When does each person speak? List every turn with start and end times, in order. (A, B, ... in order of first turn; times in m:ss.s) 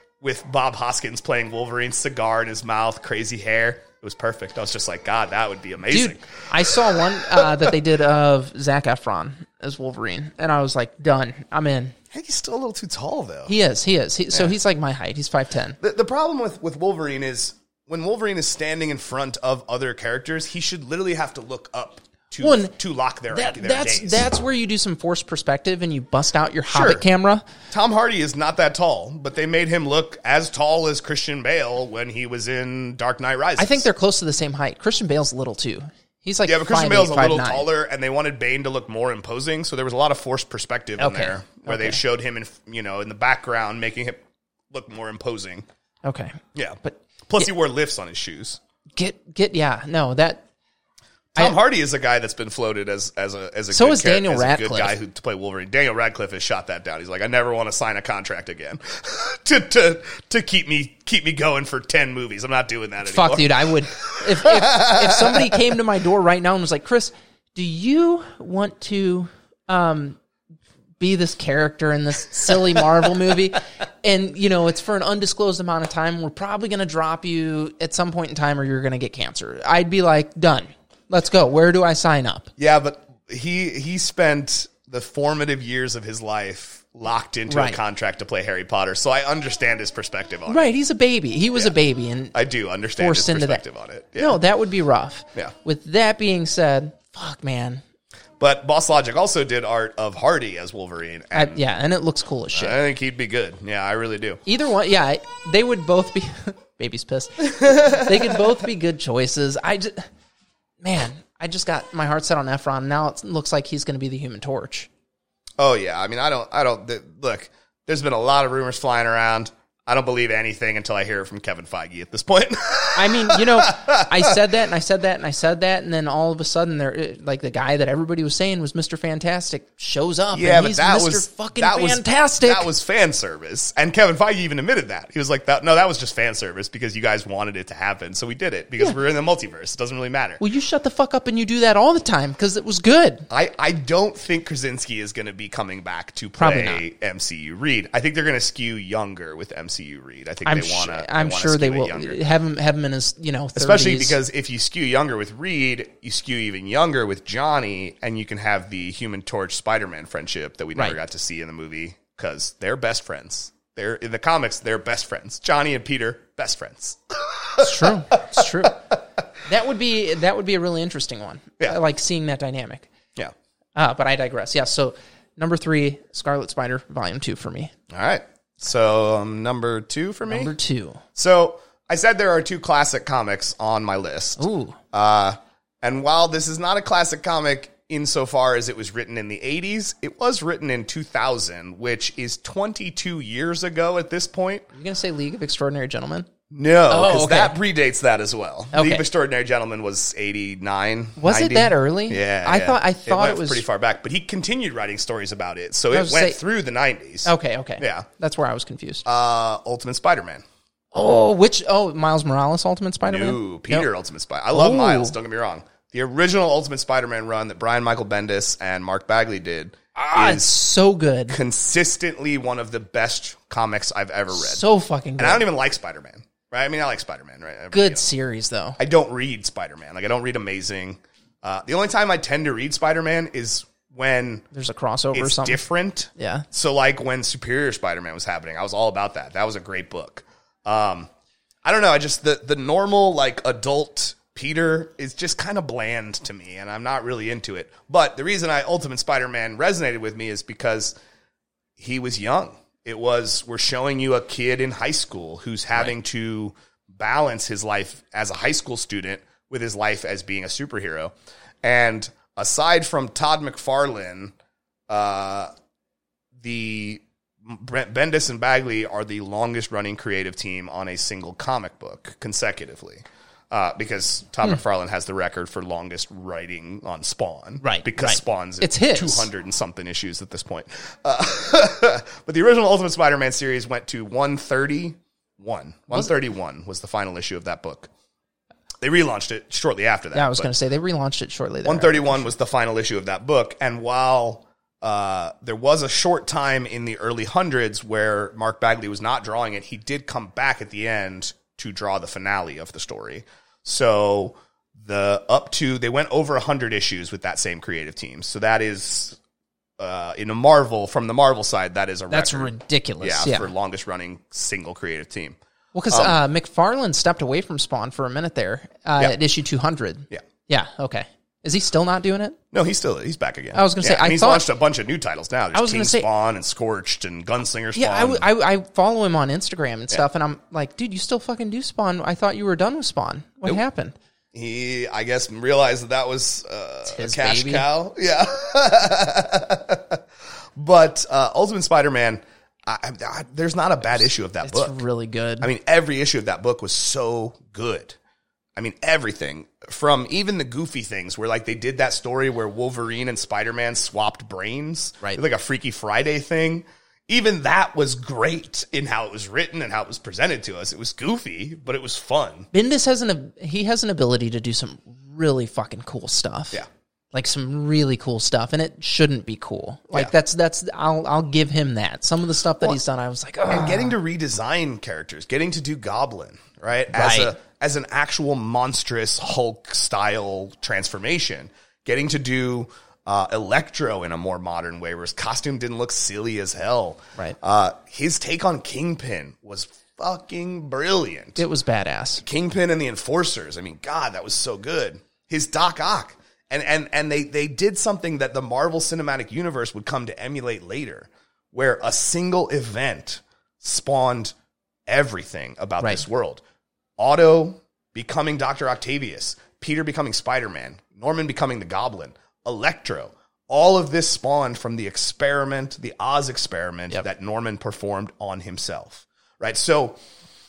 0:00.2-0:07.7 A
0:05.9-0:11.9 B
0:12.1-0:13.5 A
0:13.5-0:15.8 B
0:15.8-0:24.2 A
0:22.4-0:22.7 B
0:23.3-0:27.4 B
0:26.7-0:27.0 A
0:27.7-0:33.9 A
0:33.6-0:37.7 B
0:36.4-0:45.6 A
0:41.0-0:42.0 B
0:46.0-0:47.0 B
0:46.5-0:48.6 A
0:49.0-0:50.4 B
0:51.3-1:05.7 A
0:53.7-0:54.9 B
1:03.0-1:10.2 B
1:11.0-1:22.5 B
1:22.6-1:30.7 A
1:27.5-1:27.8 B
1:30.5-1:32.3 B
1:32.3-1:34.4 A
1:33.0-1:33.6 B
1:34.2-1:37.8 B
1:38.4-1:41.6 A
1:41.3-1:42.8 B
1:42.5-1:44.4 A
1:44.4-1:50.1 B
1:47.4-1:48.5 A
1:50.8-1:54.9 B
1:55.6-2:04.4 A
2:02.9-2:12.7 B
2:10.3-2:20.4 A
2:20.4-2:23.3 B
2:23.3-2:32.2 A
2:26.4-2:26.8 B
2:30.4-2:34.2 B
2:33.6-2:48.7 A
2:47.6-2:48.8 B
2:49.4-2:52.9 B
2:53.8-2:57.7 B
2:57.9-3:00.5 A
3:00.3-3:01.0 B
3:01.1-3:14.6 A
3:04.4-3:04.8 B
3:14.7-3:16.3 B
3:16.5-3:28.1 A
3:16.9-3:17.6 B
3:18.7-3:19.0 B
3:21.2-3:23.6 B
3:25.9-3:26.4 B
3:27.2-3:29.0 B
3:29.0-3:30.4 A
3:30.9-3:33.9 B
3:33.0-3:40.5 A
3:34.5-3:35.1 B
3:40.0-3:41.4 B
3:41.3-3:44.6 A
3:44.3-3:45.4 B
3:45.2-3:48.1 A
3:47.7-3:48.8 B
3:48.8-3:54.4 A
3:54.5-3:55.6 B
3:55.1-4:01.1 A
3:56.2-3:56.4 B
4:01.6-4:10.9 A
4:11.8-4:24.3 A
4:24.9-4:25.5 A
4:26.4-4:47.9 A
4:37.6-4:39.3 B
4:48.8-4:50.5 A
4:50.1-4:52.3 B
4:51.6-5:09.2 A
5:09.8-5:15.4 A
5:12.1-5:13.5 B
5:15.7-5:22.4 B
5:15.9-5:16.2 A
5:22.5-5:28.2 A
5:23.5-5:24.5 B
5:25.5-5:26.1 B
5:27.7-5:33.9 B
5:34.3-5:40.0 A
5:36.9-5:37.6 B
5:40.6-5:44.8 A
5:44.4-5:45.5 B
5:45.4-5:48.0 A
5:48.6-6:02.5 A
6:02.5-6:06.6 B
6:07.1-6:14.0 B
6:13.5-6:31.4 A
6:16.9-6:17.3 B
6:31.4-6:32.2 B
6:32.2-6:44.3 A
6:44.9-6:46.4 A
6:47.0-7:00.0 A